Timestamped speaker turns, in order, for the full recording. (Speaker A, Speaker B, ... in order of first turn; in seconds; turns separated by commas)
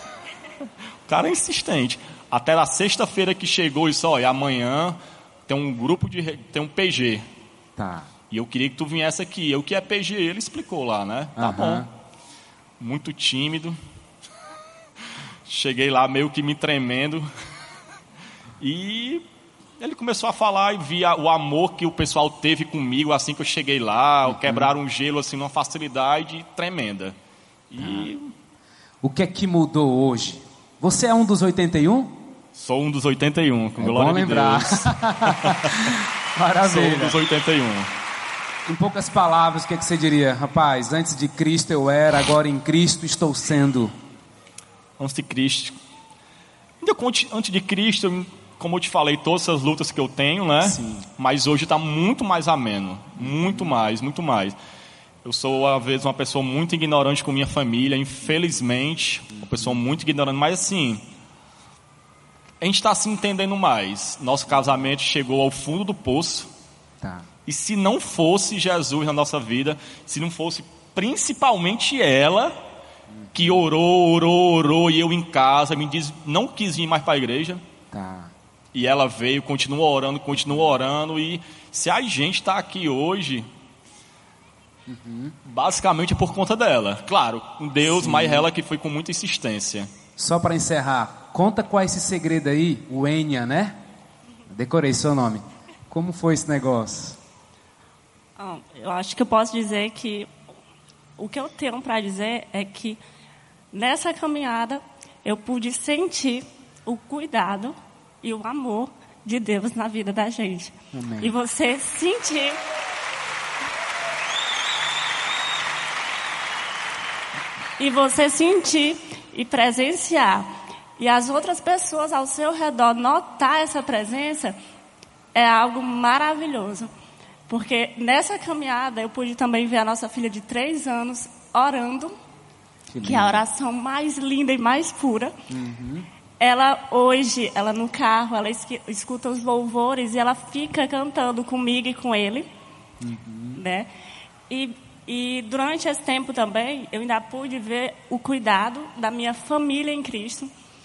Speaker A: 1.1-7.2, Speaker B: 7.8-8.1, Speaker A: 8.3-11.9, Speaker B: 11.4-11.9, Speaker A: 12.8-13.8, Speaker A: 15.5-17.3, Speaker A: 18.6-19.3, Speaker A: 19.8-27.1, Speaker B: 24.2-24.7, Speaker A: 27.7-28.3, Speaker B: 27.8-28.1, Speaker B: 29.0-32.2, Speaker A: 32.5-36.0, Speaker B: 33.8-37.2, Speaker A: 36.6-37.9, Speaker B: 38.7-43.9, Speaker A: 45.0-45.8, Speaker A: 46.8-54.6, Speaker B: 50.6-51.1, Speaker A: 55.2-61.0, Speaker B: 59.3-59.8, Speaker A: 62.6-66.5, Speaker B: 67.0-67.3, Speaker A: 67.5-72.6, Speaker B: 73.1-73.4, Speaker A: 73.3-77.6, Speaker B: 77.9-78.3, Speaker A: 78.7-83.5, Speaker B: 84.9-85.4, Speaker A: 85.5-89.9, Speaker B: 87.8-88.5, Speaker B: 90.2-93.8, Speaker B: 94.5-97.2, Speaker C: 98.4-100.3, Speaker C: 101.2-103.0, Speaker C: 103.7-112.6, Speaker B: 110.9-111.3, Speaker C: 117.8-124.6, Speaker C: 125.3-126.9, Speaker C: 127.5-132.1, Speaker B: 132.9-133.4, Speaker C: 133.0-135.3, Speaker B: 135.5-136.1, Speaker C: 136.4-142.5, Speaker B: 143.0-143.6, Speaker C: 143.6-143.9, Speaker C: 144.5-150.5